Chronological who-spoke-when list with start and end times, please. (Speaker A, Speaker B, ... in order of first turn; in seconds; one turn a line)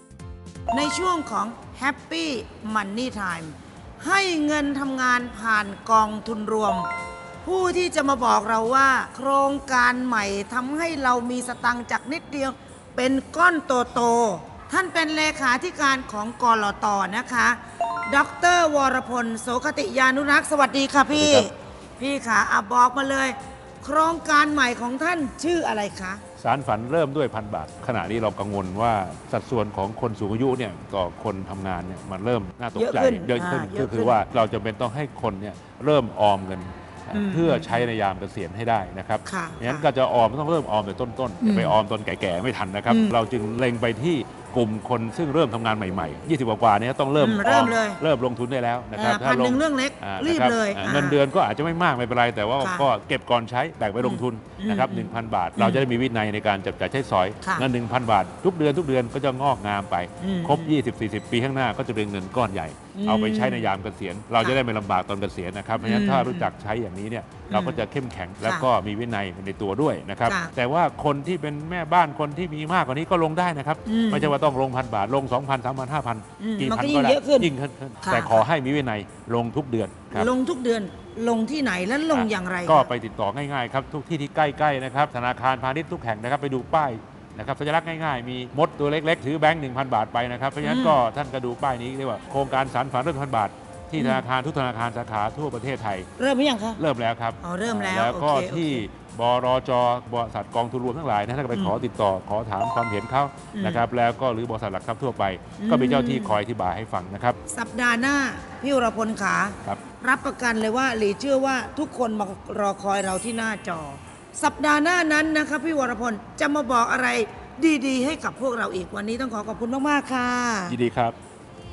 Speaker A: 0.7-6.9
Speaker A: 7.4-26.2
Speaker B: 21.1-21.5
Speaker B: 26.4-80.3
Speaker A: 32.7-34.2
Speaker A: 37.1-37.8
Speaker A: 39.2-39.9
Speaker A: 41.4-41.8
Speaker A: 42.9-43.2
Speaker A: 47.2-48.0
Speaker A: 48.9-51.2
Speaker A: 52.6-52.9
Speaker A: 54.0-55.9
Speaker A: 57.4-57.7
Speaker A: 60.2-60.7
Speaker A: 62.9-63.7
Speaker A: 65.8-66.5
Speaker A: 67.5-67.8
Speaker A: 68.4-68.7
Speaker A: 70.2-70.5
Speaker A: 73.8-74.3
Speaker A: 76.4-78.4
Speaker A: 80.1-82.9
Speaker B: 82.1-96.1
Speaker A: 90.6-91.0
Speaker A: 94.0-94.2
Speaker A: 96.2-96.8
Speaker B: 96.8-107.4
Speaker A: 97.4-98.9
Speaker A: 103.5-103.8
Speaker A: 105.6-106.4
Speaker A: 107.5-120.8
Speaker B: 120.7-121.2